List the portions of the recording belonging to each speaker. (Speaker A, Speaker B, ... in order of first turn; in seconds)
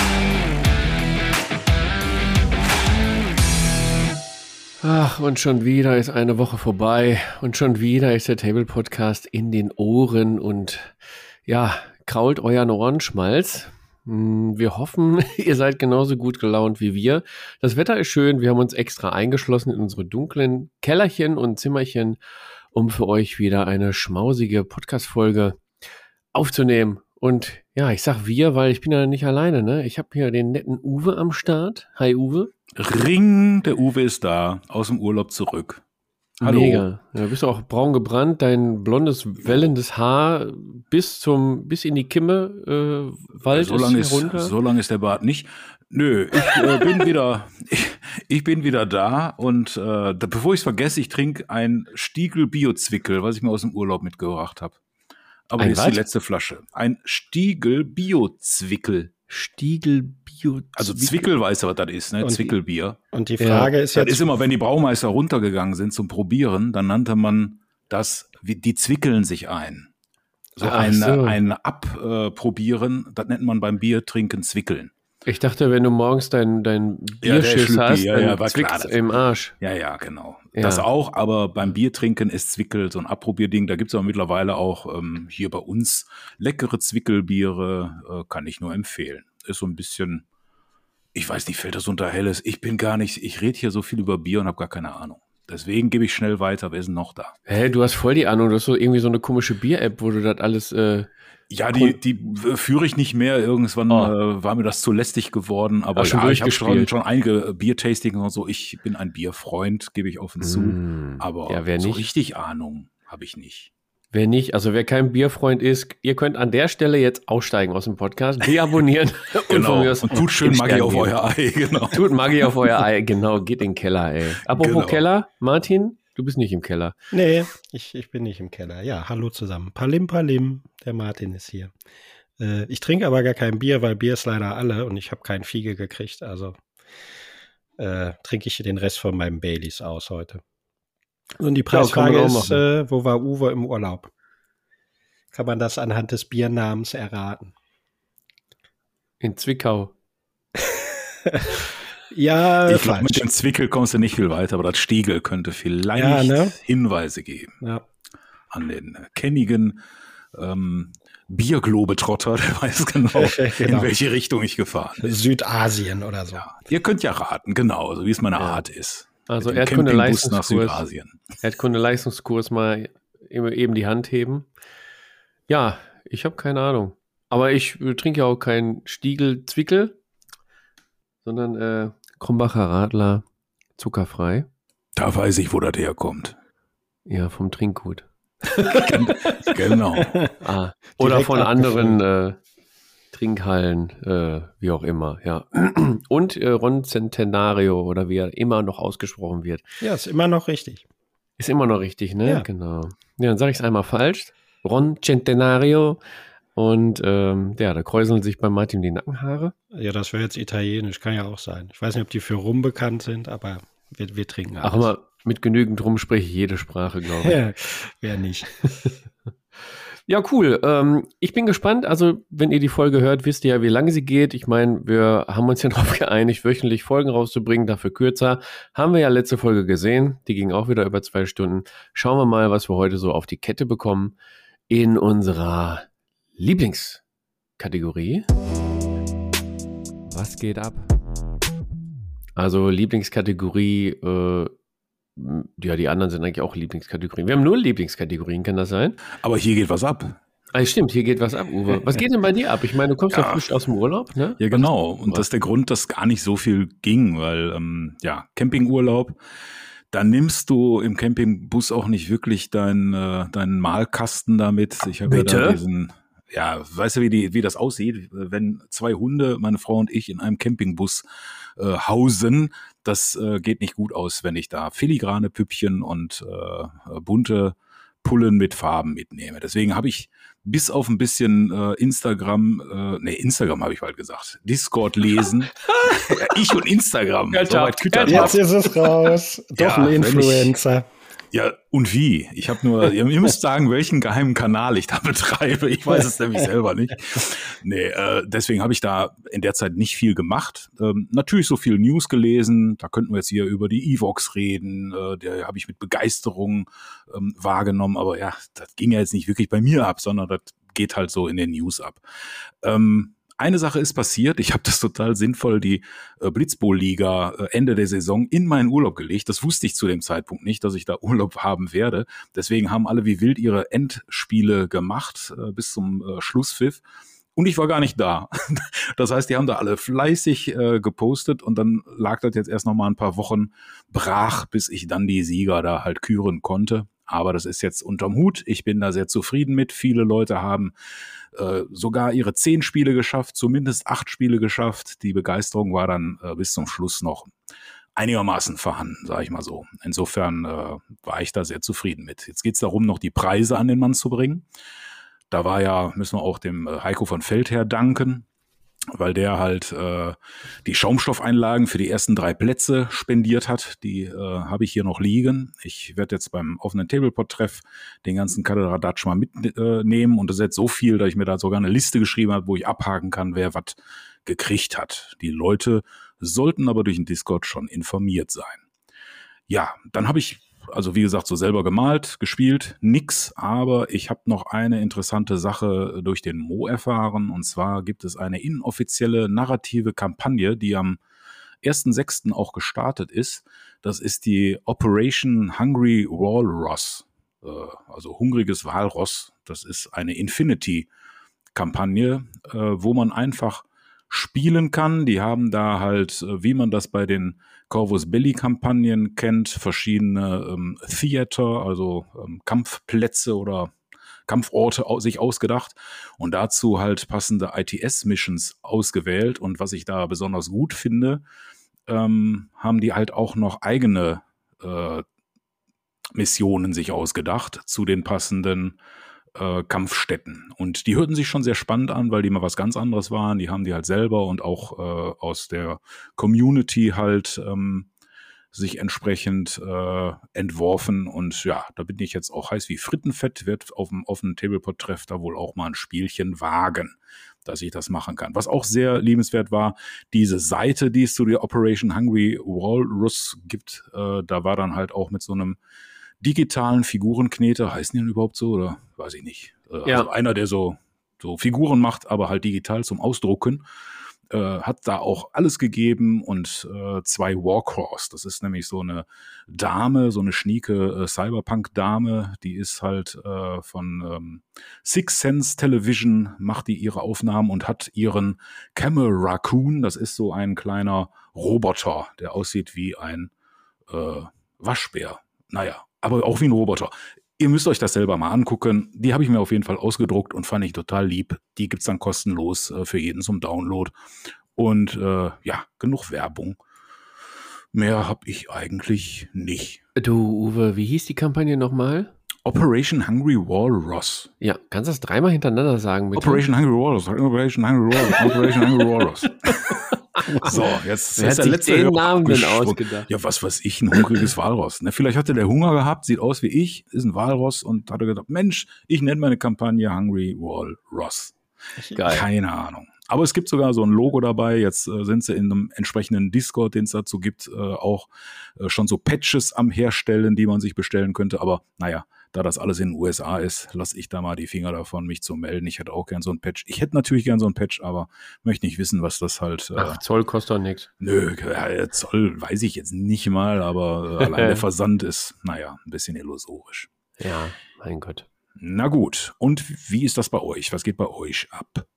Speaker A: 4.8-22.2, 22.7-25.6, 26.3-32.5, 36.4-44.5, 46.4-47.0, 55.6-56.0, 59.3-61.2, 63.4-63.7, 70.6-71.4, 75.2-79.5, 80.5-80.8, 97.5-101.1, 101.7-102.0, 106.0-106.9, 110.4-112.0, 114.1-121.1, 121.9-126.9, 141.7-142.6, 149.2-149.9, 169.3-170.8, 171.4-174.5, 175.5-179.9, 181.2-183.2, 183.8-184.5, 187.1-189.4, 190.4-192.4, 193.1-199.6, 201.4-206.0, 206.5-209.5, 214.6-217.4, 220.1-234.1, 234.7-237.0, 237.6-238.3, 240.1-240.9, 242.4-244.5, 245.2-249.0, 250.5-255.2, 265.1-265.6, 285.6-286.6, 287.3-288.8, 499.9-502.1, 504.4-506.4, 508.0-510.6, 511.2-513.1, 514.0-514.2, 521.9-522.3, 539.8-540.9, 544.2-544.6, 547.2-548.2
Speaker B: 32.8-35.8, 36.4-36.9, 43.5-54.8, 55.5-59.1, 60.8-63.0, 63.9-69.9, 70.5-74.9, 77.2-79.0, 79.6-90.2, 91.1-97.3, 101.5-113.7, 119.5-122.5, 124.4-125.0, 152.6-157.5, 158.5-159.8, 160.3-165.2, 166.4-171.2, 184.9-186.3, 188.8-190.1, 249.2-250.2, 253.1-253.5, 254.4-259.1, 259.9-271.0, 271.6-288.4, 289.6-290.5, 291.3-312.0, 312.6-326.8, 327.3-340.7, 341.3-347.3, 347.9-354.4, 355.3-358.2, 358.9-378.6, 379.5-391.0, 391.6-400.9, 401.5-413.7, 414.3-421.2, 421.9-425.0, 426.1-428.8, 429.4-437.9, 438.5-446.9, 447.4-455.6, 456.2-463.6, 464.3-483.3, 483.9-493.9, 494.6-496.6, 497.7-499.8, 502.4-504.3, 506.1-521.3, 522.0-528.1, 528.6-540.0, 541.0-546.9, 548.6-551.9
Speaker C: 62.2-62.5, 63.1-64.2, 127.1-131.7, 132.4-136.6, 137.8-140.4, 141.4-144.1, 145.3-147.5, 150.6-153.2, 155.9-156.6, 163.1-163.9, 165.0-166.4, 189.9-190.3, 191.0-192.0, 199.8-200.8, 209.7-214.9, 217.2-218.9, 288.1-290.9